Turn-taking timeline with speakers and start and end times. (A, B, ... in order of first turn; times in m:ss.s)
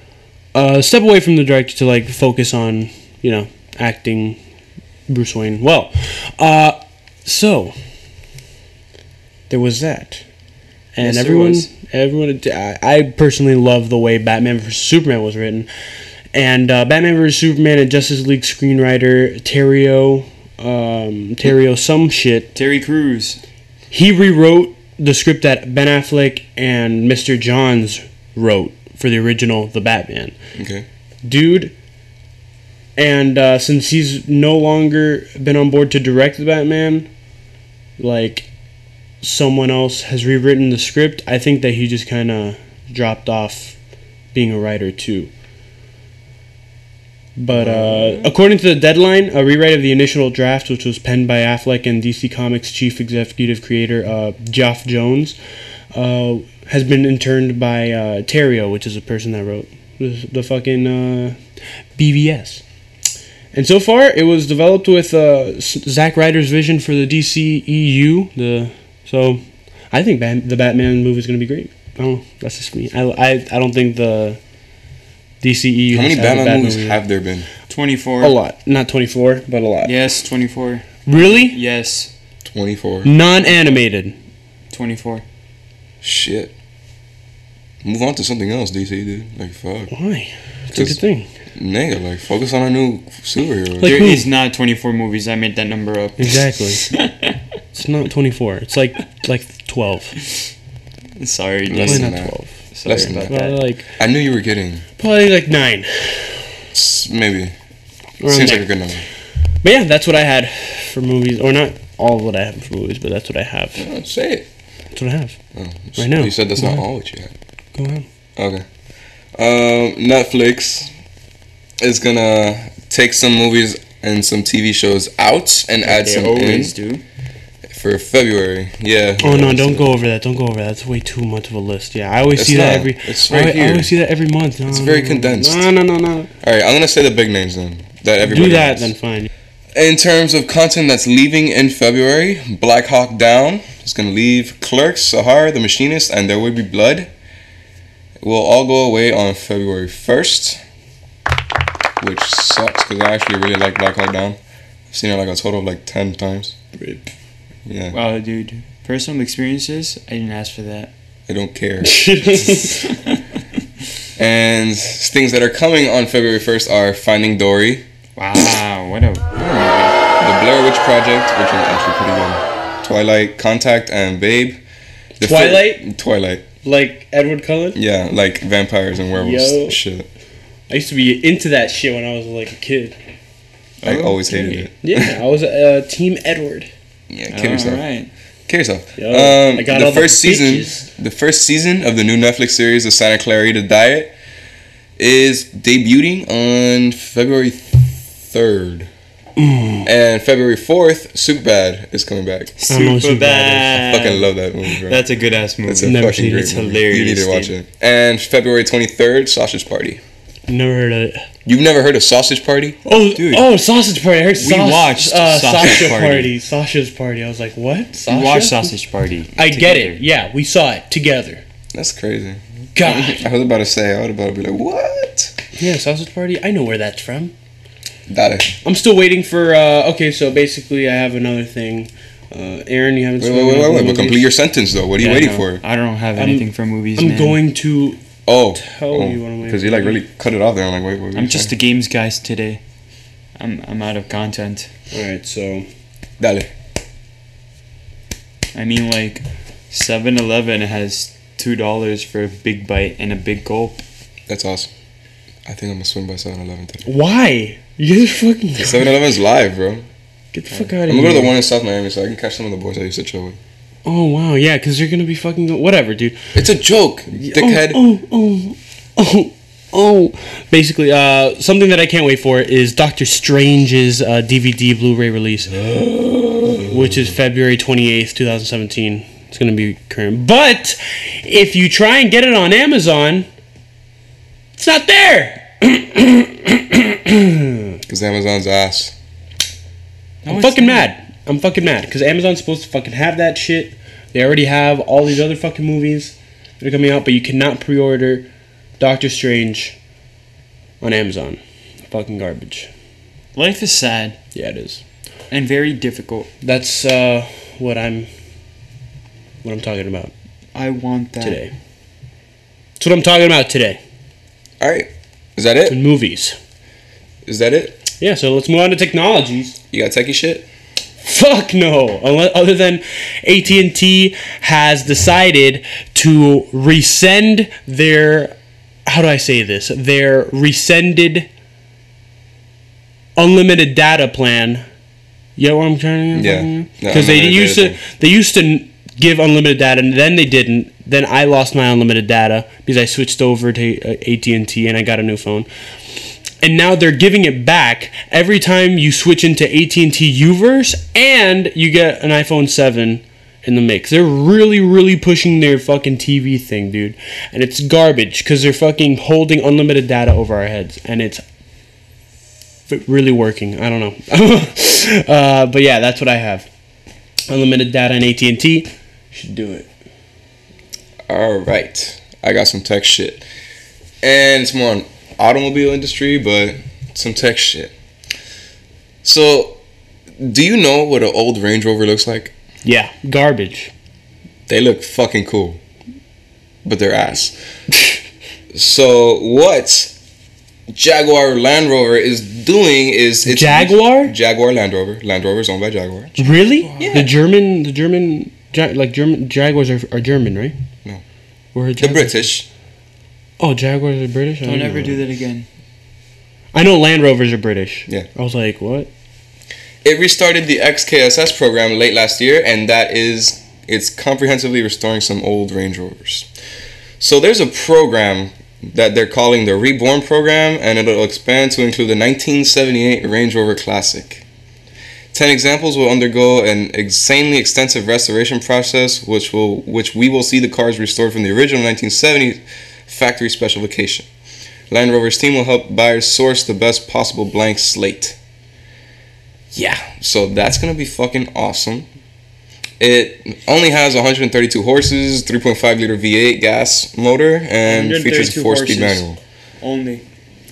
0:00.5-0:04.4 A
0:05.1-0:07.7 A
0:09.5-0:10.2 A
0:11.0-0:15.7 A
0:11.0-0:11.7 B
0:16.3-0:22.5 A
0:22.6-0:23.4 B
0:23.9-0:30.4 A
0:30.6-0:30.9 C
0:31.2-0:31.7 A
0:33.0-0:37.1 A
0:38.0-0:38.5 A
0:39.2-0:43.8 A
0:44.3-0:45.3 A
0:47.4-0:55.4 A
0:47.6-0:48.3 C
0:55.9-1:01.4 A
1:02.0-1:02.6 A
1:03.5-1:14.4 A
1:15.4-1:17.0 A
1:15.9-1:17.5 C
1:17.7-1:18.4 B
1:18.2-1:19.9 A
1:19.8-1:22.1 B
1:21.1-1:21.6 A
1:22.4-1:23.1 C
1:23.0-1:24.2 A
1:24.7-1:25.2 B
1:26.0-1:26.5 C
1:27.8-1:29.9 C
1:29.9-1:31.3 A
1:31.6-1:34.1 C
1:33.8-1:34.3 A
1:33.8-1:37.4 B
1:36.2-1:36.8 A
1:37.7-1:40.2 A
1:41.2-1:43.6 B
1:41.7-1:42.3 C
1:41.8-1:43.9 A
1:42.8-1:43.3 C
1:44.0-1:44.8 C
1:45.0-1:46.5 A
1:46.7-1:47.5 C
1:48.2-1:48.7 A
1:48.3-1:49.1 C
1:49.6-1:53.9 A
1:53.8-1:54.5 C
1:54.9-1:55.4 A
1:55.5-1:57.3 C
1:56.0-1:56.9 A
1:57.8-1:58.1 A
1:58.4-1:58.6 C
1:59.4-2:00.9 C
2:01.8-2:06.7 C
2:05.8-2:07.0 B
2:07.7-2:10.0 C
2:09.2-2:16.3 A
2:12.3-2:13.9 C
2:14.7-2:15.7 C
2:16.4-2:18.9 C
2:18.2-2:19.3 A
2:19.8-2:27.1 C
2:28.2-2:30.6 C
2:32.0-2:34.4 C
2:34.9-2:36.6 C
2:37.7-2:38.0 C
2:37.9-2:40.9 B
2:41.3-2:42.1 C
2:41.8-2:42.9 A
2:42.6-2:43.2 B
2:44.2-2:47.8 C
2:48.2-2:49.9 B
2:49.4-2:54.6 C
2:55.2-2:56.5 C
2:55.2-2:55.8 A
2:56.6-2:57.8 A
2:57.8-3:00.1 C
2:59.2-2:59.8 A
3:00.7-3:03.0 A
3:03.8-3:04.7 B
3:03.8-3:05.1 C
3:04.8-3:06.7 A
3:07.1-3:07.8 C
3:07.3-3:08.1 B
3:08.5-3:14.1 C
3:09.0-3:10.9 A
3:15.0-3:18.9 C
3:19.4-3:19.9 A
3:19.8-3:22.5 C
3:22.6-3:27.5 B
3:22.7-3:23.7 A
3:23.7-3:25.0 C
3:25.7-3:30.0 C
3:25.8-3:26.6 A
3:30.5-3:31.2 A
3:31.4-3:32.8 C
3:32.8-3:38.7 A
3:33.0-3:33.5 B
3:34.4-3:36.3 B
3:38.0-3:40.0 B
3:39.4-3:41.4 A
3:41.7-3:45.4 C
3:42.8-3:43.3 A
3:45.6-3:47.3 A
3:48.1-3:48.6 C
3:48.6-3:54.3 A
3:53.2-3:55.6 C
3:55.0-3:57.4 B
3:56.2-3:56.5 A
3:57.0-3:58.0 A
3:58.3-4:01.5 C
3:58.6-4:00.0 A
4:01.2-4:02.6 B
4:03.4-4:04.7 B
4:04.9-4:05.7 A
4:06.2-4:06.5 C
4:08.5-4:13.8 B
4:14.3-4:14.7 C
4:15.5-4:16.9 C
4:16.8-4:19.0 A
4:18.6-4:19.9 C
4:20.3-4:21.3 A
4:20.8-4:23.4 C
4:23.8-4:26.3 A
4:26.3-4:27.8 C
4:27.1-4:35.7 A
4:35.5-4:37.1 C
4:36.7-4:43.3 A
4:44.6-4:47.8 A
4:47.9-4:48.9 C
4:50.2-4:50.9 B
4:50.3-4:58.3 A
4:58.8-4:59.8 A
5:00.8-5:02.7 A
5:03.4-5:04.2 B
5:04.4-5:04.8 A
5:05.3-5:06.3 B
5:06.4-5:08.1 A
5:09.4-5:10.1 A
5:10.6-5:11.4 B
5:11.2-5:11.5 A
5:12.8-5:13.8 A
5:14.6-5:15.8 C
5:15.7-5:16.4 A
5:17.3-5:17.8 C
5:18.0-5:19.6 A
5:19.7-5:20.5 C
5:21.0-5:28.4 A
5:28.9-5:31.3 A
5:33.2-5:34.6 A
5:35.4-5:45.5 A
5:36.1-5:37.8 C
5:46.4-6:01.2 A
6:02.7-6:06.5 A
6:07.3-6:09.7 A
6:11.1-6:13.2 C
6:14.0-6:17.7 C
6:19.0-6:19.6 C
6:20.2-6:22.3 C
6:22.6-6:23.7 A
6:24.5-6:25.6 C
6:26.6-6:27.3 C
6:28.5-6:30.0 C
6:30.7-6:36.2 C
6:33.2-6:34.1 A
6:36.2-6:37.1 B
6:36.2-6:40.5 A
6:36.7-6:37.1 C
6:41.5-6:42.2 A
6:41.8-6:42.5 C
6:43.4-6:45.0 A
6:44.4-6:45.5 B
6:46.5-6:48.9 A
6:49.8-6:56.3 C
6:57.0-7:04.2 C
7:05.1-7:14.1 C
7:14.7-7:18.2 C
7:19.5-7:21.9 C
7:22.8-7:29.2 C
7:27.6-7:30.0 B